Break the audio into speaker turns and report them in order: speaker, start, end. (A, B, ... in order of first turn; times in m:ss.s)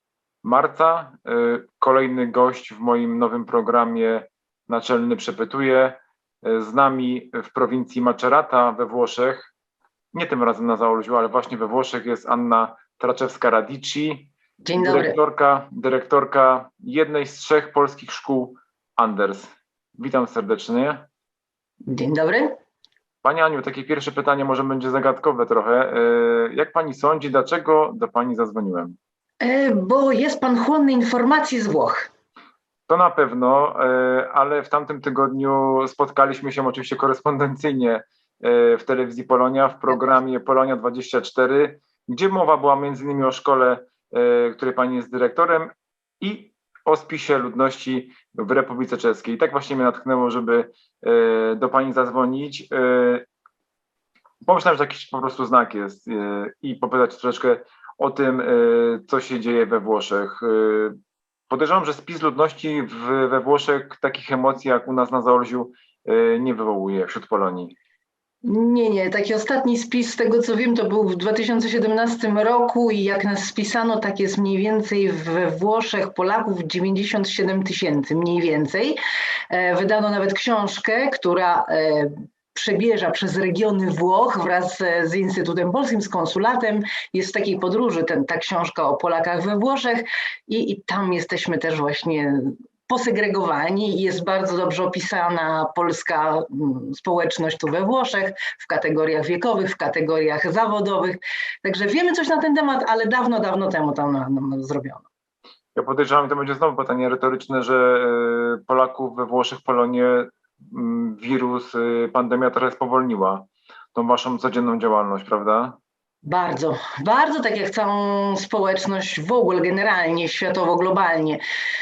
0:00.4-0:09.5 A
0:10.1-0:21.1 A
0:14.6-0:15.2 B
0:21.9-0:22.5 B
0:23.2-0:29.0 A
0:29.4-0:32.1 B
0:32.9-0:53.2 A
0:54.4-1:01.0 A
1:01.5-1:07.7 A
1:08.4-1:19.0 B
1:19.5-1:45.1 B
1:45.7-1:55.8 A
1:56.2-2:01.4 B